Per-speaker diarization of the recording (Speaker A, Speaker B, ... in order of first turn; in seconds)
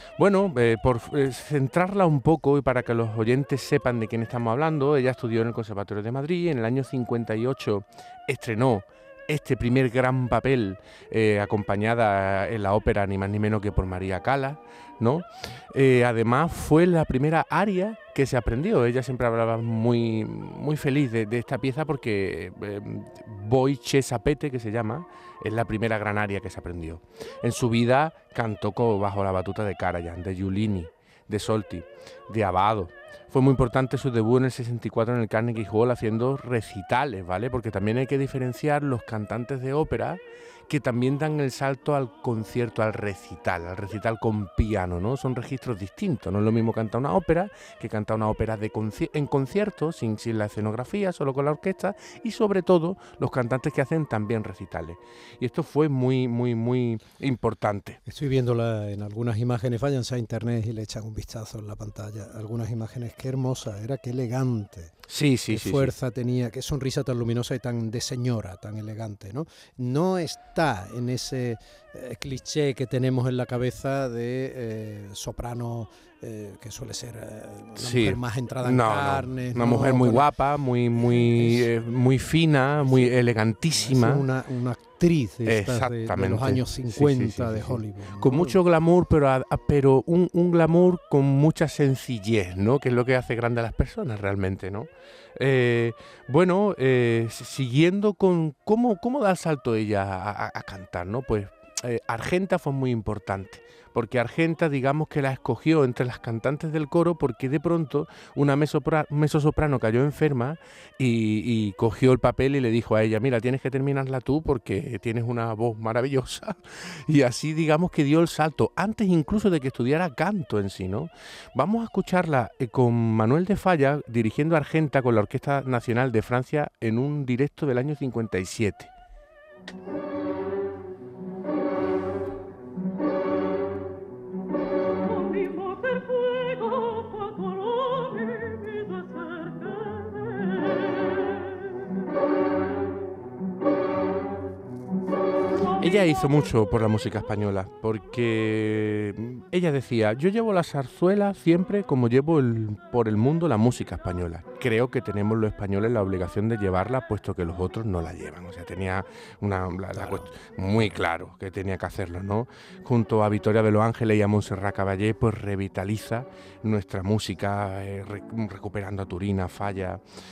Speaker A: 0.2-58.0, 65.1-65.9, 77.8-84.3, 85.5-128.9, 145.8-170.0
Speaker B: 58.1-64.9, 65.5-80.3, 81.0-81.7, 82.9-83.1, 83.7-88.6, 159.9-160.2